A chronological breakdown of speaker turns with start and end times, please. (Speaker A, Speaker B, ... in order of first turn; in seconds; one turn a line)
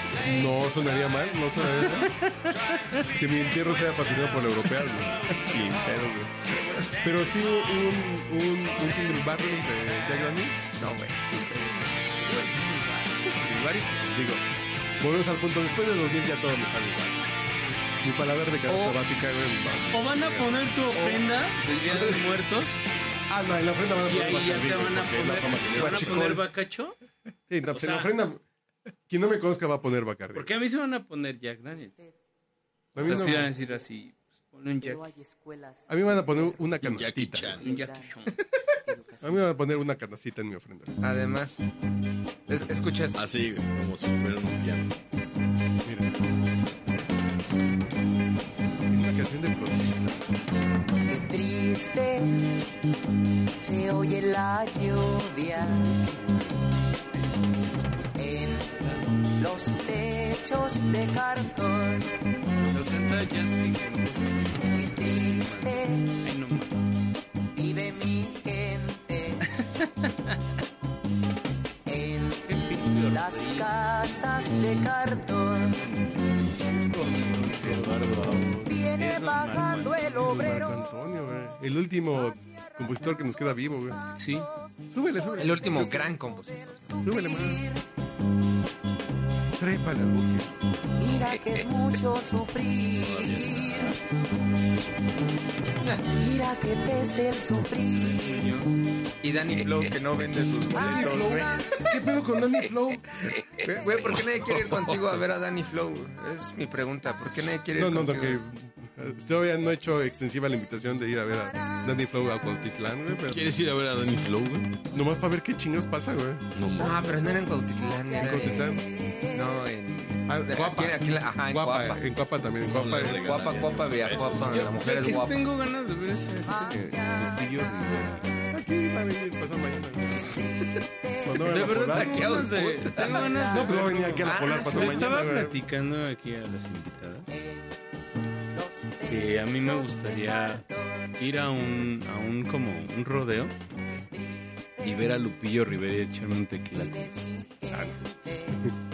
Speaker A: 0.1-2.1
Speaker B: 1.9-3.0
Speaker A: 3.1-6.4
Speaker A: 7.0-10.7
Speaker C: 10.8-14.0
Speaker A: 13.3-14.4
Speaker A: 15.0-17.2
Speaker A: 18.0-21.2
Speaker C: 18.7-19.0
Speaker B: 19.9-22.8
Speaker A: 23.3-26.4
Speaker B: 24.1-26.9
Speaker C: 25.7-26.4
Speaker A: 27.5-28.4
Speaker B: 27.7-28.1
Speaker A: 29.1-30.5
Speaker B: 30.3-32.0
Speaker D: 31.7-32.1
Speaker A: 32.9-33.5
Speaker B: 33.0-35.0
Speaker D: 33.0-33.8
Speaker D: 34.8-36.9
Speaker A: 35.9-37.6
Speaker E: 36.8-37.7
Speaker D: 37.6-38.3
Speaker B: 37.6-38.3
Speaker D: 38.9-39.5
Speaker A: 39.2-41.0
Speaker C: 41.0-41.6
Speaker C: 42.5-43.2
Speaker E: 43.1-44.9
Speaker A: 45.8-46.1
Speaker A: 48.9-50.2
Speaker D: 51.0-52.7
Speaker D: 53.6-56.5
Speaker B: 57.0-57.9
Speaker D: 58.1-62.2
Speaker B: 58.8-59.2
Speaker B: 62.7-66.8
Speaker D: 64.7-66.2
Speaker D: 67.5-69.5
Speaker B: 69.6-70.3
Speaker D: 71.8-75.8
Speaker B: 72.5-73.7
Speaker A: 76.4-78.8
Speaker B: 77.1-80.6
Speaker D: 78.7-80.9
Speaker A: 80.2-84.0
Speaker D: 82.5-84.6
Speaker B: 84.2-84.5
Speaker A: 84.9-86.2
Speaker D: 85.2-87.8
Speaker C: 85.4-87.0
Speaker A: 87.0-87.7
Speaker A: 89.6-90.5
Speaker D: 91.0-94.1
Speaker E: 93.0-95.3
Speaker D: 96.0-98.5
Speaker B: 98.0-98.8
Speaker C: 99.2-101.8
Speaker D: 100.8-101.5
Speaker A: 100.8-103.0
Speaker C: 103.2-108.4
Speaker A: 107.7-113.5
Speaker E: 113.3-114.7
Speaker A: 114.9-116.4
Speaker E: 116.5-117.4
Speaker C: 116.8-118.8
Speaker D: 117.8-119.3
Speaker A: 118.1-118.9
Speaker C: 119.3-122.0
Speaker A: 120.2-123.3
Speaker E: 122.6-124.8
Speaker C: 123.1-125.4
Speaker B: 124.4-128.3
Speaker D: 126.0-128.5
Speaker A: 128.5-130.4
Speaker D: 130.1-131.6
Speaker A: 131.2-132.4
Speaker B: 131.3-137.3
Speaker C: 131.7-135.2
Speaker D: 132.9-134.8
Speaker A: 133.5-135.6
Speaker D: 137.3-137.8
Speaker D: 138.5-141.2
Speaker B: 139.1-140.6
Speaker B: 141.2-143.5
Speaker D: 143.8-145.2
Speaker B: 144.8-147.2
Speaker D: 146.7-148.7
Speaker A: 147.7-147.9